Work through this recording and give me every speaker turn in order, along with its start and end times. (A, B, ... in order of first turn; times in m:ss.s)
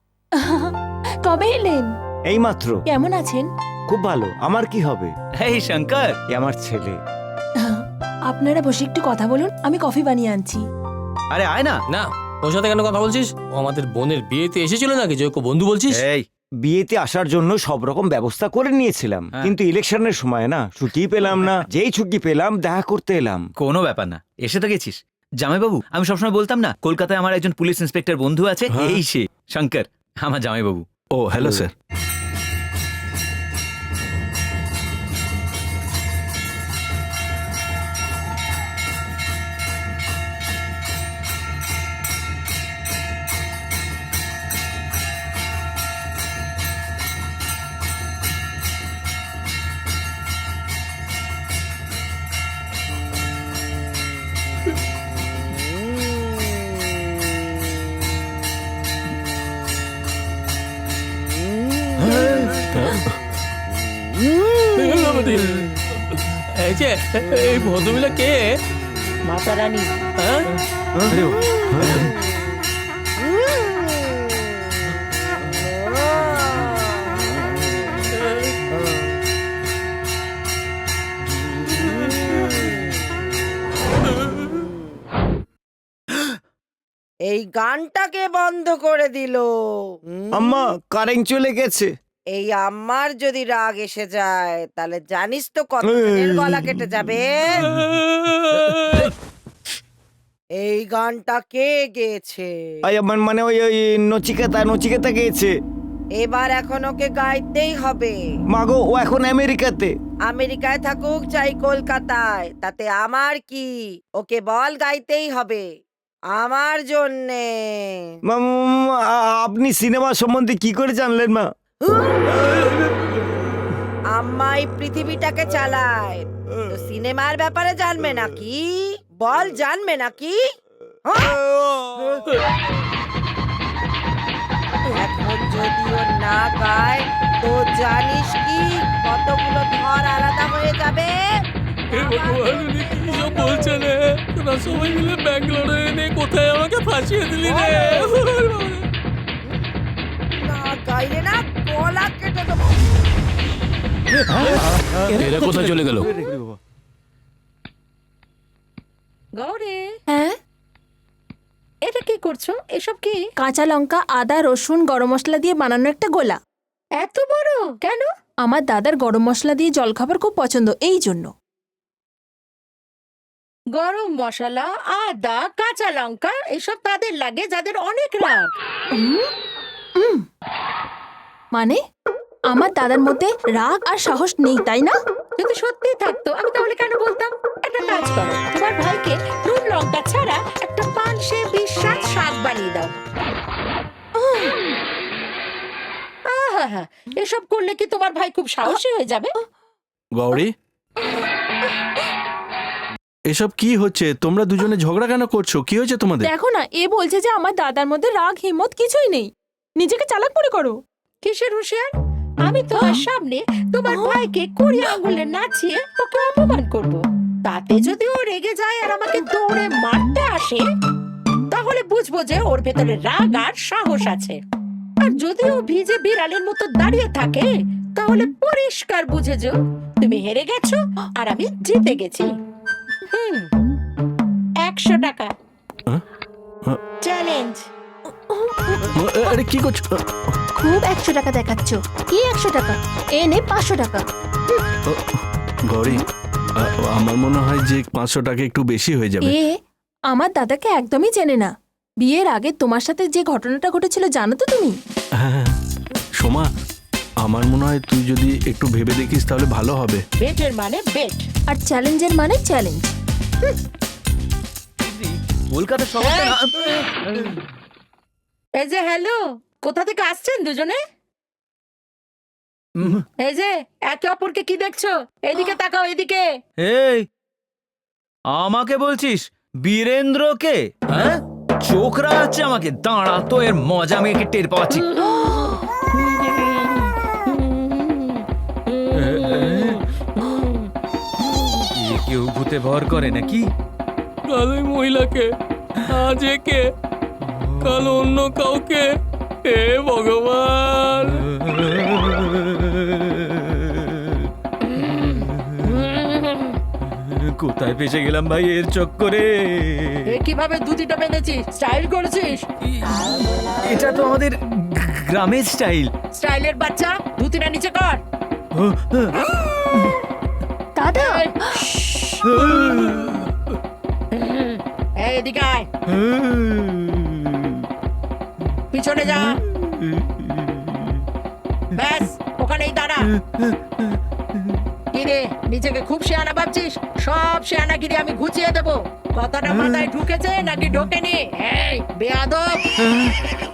0:00.4-0:01.9 A
0:02.3-0:02.8 B
0:02.9-0:03.5 A
0:03.9-0:05.1 B
0:05.4-0:06.1 C
0:06.3-0:07.0 B
0:07.6-0:10.6 A
0:11.3-0:11.7 C
0:11.9-0:16.1 D
0:16.6-0:23.4 B
0:23.6-0:30.8 C
0:28.5-0:29.5 E
0:28.7-0:29.0 F
0:30.3-0:30.7 E
0:31.2-0:31.7 F
1:02.7-1:03.1 F
1:04.8-1:05.7 D
1:06.6-1:08.5 D
1:09.2-1:10.0 E
1:10.2-1:10.5 D
1:11.7-1:12.1 F
1:11.9-1:12.4 G
1:13.4-1:14.4 G
1:15.5-1:17.3 G
1:21.9-1:22.6 G
1:27.3-1:29.5 G
1:30.1-1:30.5 G
1:30.3-1:31.9 B
1:32.3-1:37.6 G
1:35.8-1:36.7 B
1:38.0-1:38.8 D
1:40.6-1:42.8 G
1:42.8-1:45.5 B
1:46.2-1:48.2 G
1:48.5-1:49.9 B
1:50.3-1:55.7 G
1:56.3-1:58.2 G
1:58.2-2:01.5 B
2:04.1-2:10.4 G
2:11.1-2:12.2 G
2:14.9-2:23.9 G
2:21.9-2:28.9 D
2:27.4-2:28.2 G
2:30.3-2:32.9 G
2:34.4-2:36.5 B
2:35.1-2:36.1 D
2:39.4-2:39.8 E
2:40.1-2:40.4 A
2:41.9-2:43.2 E
2:43.4-2:46.4 A
2:47.0-2:48.1 E
2:48.4-2:51.3 A
2:53.8-2:58.5 E
2:58.9-2:59.3 A
3:00.0-3:00.2 A
3:01.5-3:01.8 A
3:02.5-3:04.9 A
3:05.4-3:13.0 E
3:14.2-3:14.5 A
3:16.3-3:19.3 E
3:20.2-3:20.5 F
3:23.3-3:26.3 F
3:26.2-3:30.8 A
3:31.2-3:31.9 E
3:32.5-3:40.6 E
3:32.8-3:33.0 A
3:33.9-3:34.2 A
3:41.5-3:44.4 E
3:45.0-3:52.3 E
3:53.1-3:53.5 E
3:54.7-3:55.3 E
3:57.0-3:57.7 E
3:58.1-3:58.9 A
3:58.9-4:00.0 F
4:00.6-4:04.0 A
4:04.9-4:06.0 F
4:06.6-4:09.4 F
4:09.2-4:09.5 A
4:10.1-4:11.5 A
4:12.0-4:14.8 A
4:15.2-4:15.6 F
4:16.2-4:16.5 F
4:17.2-4:20.0 F
4:20.2-4:21.3 E
4:21.5-4:22.9 A
4:24.8-4:26.9 E
4:28.6-4:30.8 E
4:32.8-4:33.0 C
4:32.9-4:36.9 E
4:36.6-4:37.1 C
4:38.4-4:39.1 E
4:38.5-4:39.2 C
4:39.6-4:42.1 E
4:39.7-4:40.5 C
4:42.0-4:44.8 C
4:44.7-4:45.6 E
4:46.1-4:48.1 E
4:48.9-4:50.6 E
4:51.8-4:53.5 C
4:51.9-4:53.3 E
4:54.3-4:55.3 D
4:55.9-4:56.7 D
4:57.6-4:58.9 D
4:59.4-5:01.3 D
5:04.8-5:08.6 E
5:07.4-5:09.2 C
5:09.2-5:18.0 E
5:13.7-5:14.3 C
5:15.2-5:15.8 C
5:18.6-5:19.3 E
5:20.8-5:21.6 A
5:21.0-5:23.2 E
5:24.1-5:25.7 E
5:26.2-5:26.8 E
5:28.7-5:29.4 E
5:31.7-5:33.5 E
5:35.0-5:42.6 E